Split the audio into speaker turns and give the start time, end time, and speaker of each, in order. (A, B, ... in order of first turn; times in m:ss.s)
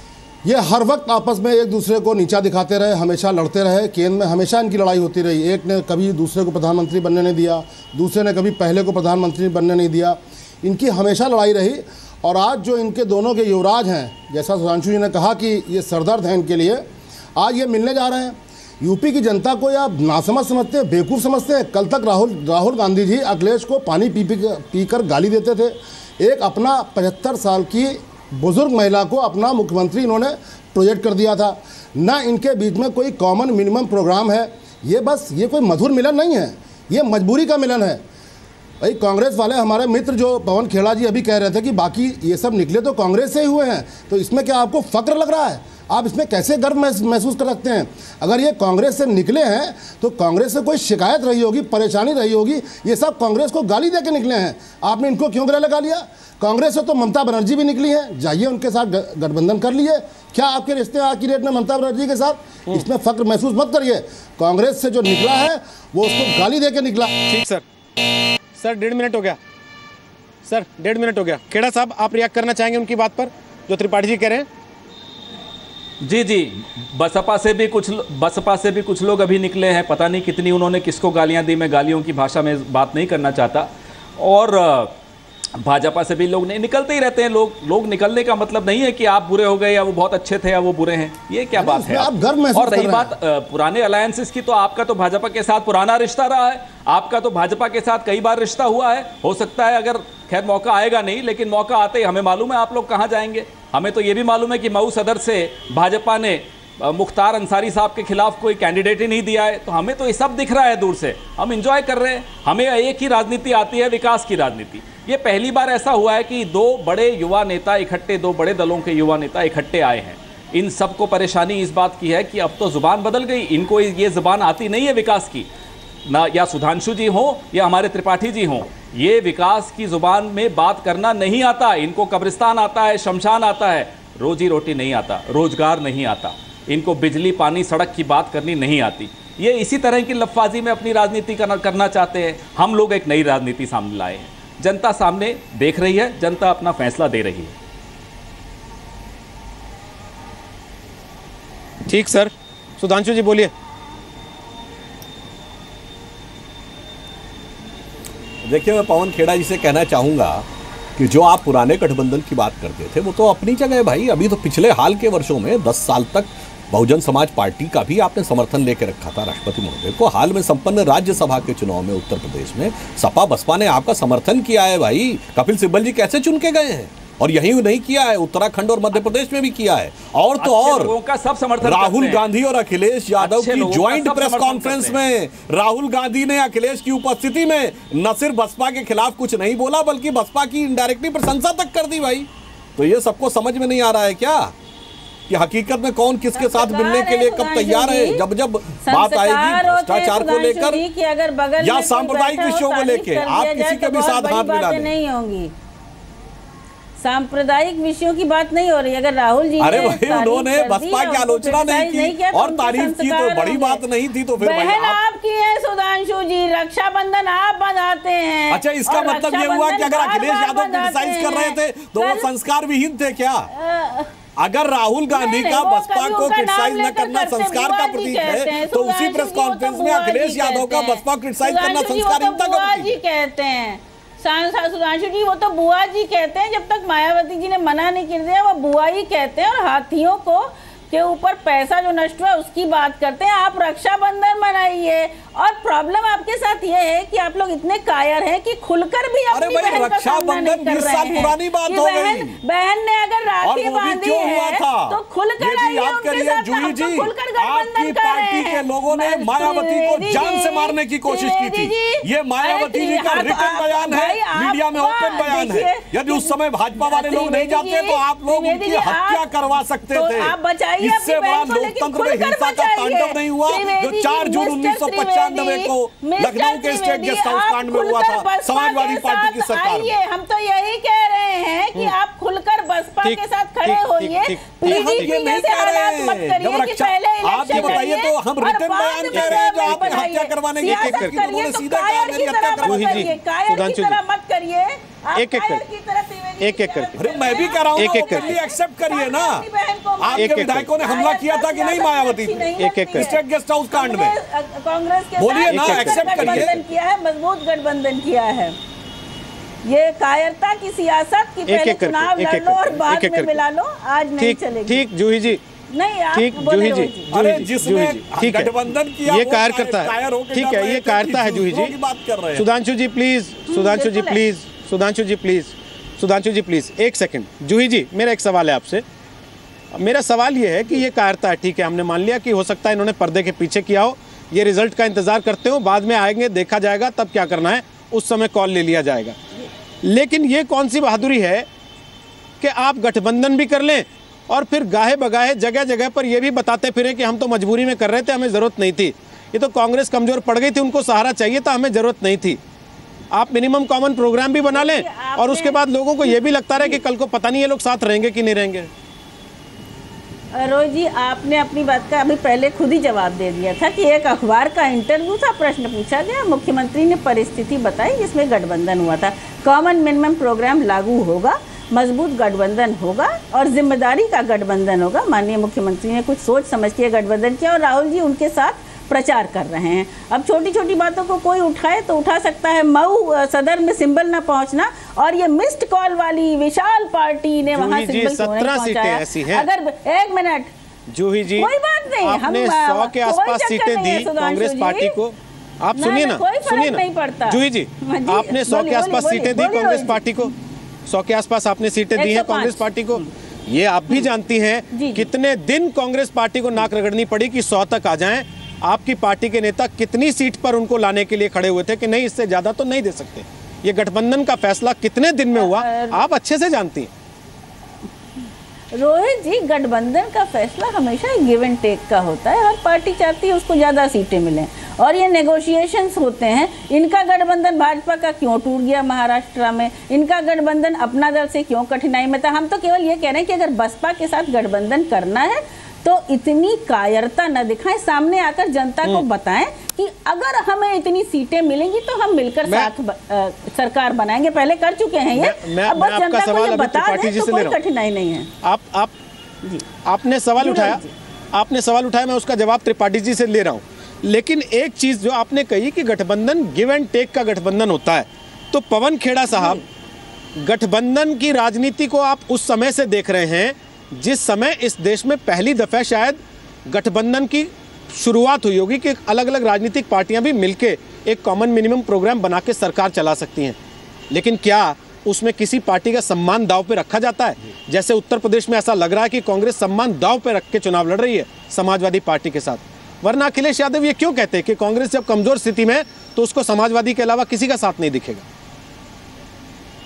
0:00.4-0:38.0 A
0:38.8-1:07.1 A
1:07.3-1:07.6 B
1:08.6-1:09.4 B
1:10.4-1:14.5 B
1:16.0-1:24.9 C
1:25.6-2:05.5 C
1:31.6-1:33.1 A
2:06.1-2:27.5 C
2:31.9-2:33.5 B
2:38.4-2:40.4 D
2:41.0-3:00.9 D
3:00.4-3:02.2 C
3:01.6-3:14.5 D
3:03.2-3:05.0 C
3:15.3-3:20.8 D
3:16.3-3:18.2 E
3:18.8-3:25.5 E
3:21.6-3:24.9 D
3:27.0-3:33.8 E
3:29.6-3:35.0 D
3:34.4-3:42.3 E
3:38.5-3:43.5 D
3:43.5-3:44.1 E
3:44.4-3:53.0 D
3:45.1-4:29.2 E
4:09.3-4:12.4 D
4:13.4-4:39.9 D
4:29.9-5:08.6 E
4:43.0-4:45.1 B
4:44.6-4:53.1 D
4:47.5-4:47.8 B
4:49.1-4:50.0 B
4:50.6-4:51.2 B
4:52.6-4:54.0 B
4:55.1-4:55.6 B
4:56.4-4:57.2 B
4:57.0-4:59.4 D
4:57.7-4:58.4 B
5:00.0-5:04.1 D
5:00.1-5:00.7 B
5:02.6-5:03.2 B
5:05.2-5:06.6 D
5:05.5-5:06.6 B
5:09.6-5:14.9 E
5:11.5-5:13.4 B
5:14.2-5:15.4 B
5:15.7-5:17.1 E
5:16.1-5:21.7 B
5:17.1-5:22.5 D
5:22.3-5:28.8 B
5:23.5-5:24.2 E
5:29.7-5:39.2 B
5:39.8-5:41.5 B
5:42.4-5:52.4 B
5:53.1-5:58.7 B
5:54.5-5:56.8 E
6:00.3-6:30.5 E
6:27.5-6:29.4 B
6:30.9-6:31.5 B
6:31.4-6:35.0 E
6:32.0-6:40.3 B
6:35.7-6:40.0 E
6:40.9-6:56.9 B
6:42.0-6:42.6 E
6:44.7-6:45.1 E
6:55.3-6:56.0 E
6:58.7-7:28.3 E
7:25.1-7:27.6 B
7:28.4-7:28.9 B
7:29.8-7:30.8 B
7:30.4-7:30.9 E
7:31.3-7:39.6 B
7:40.4-7:53.6 B
7:54.1-8:08.2 B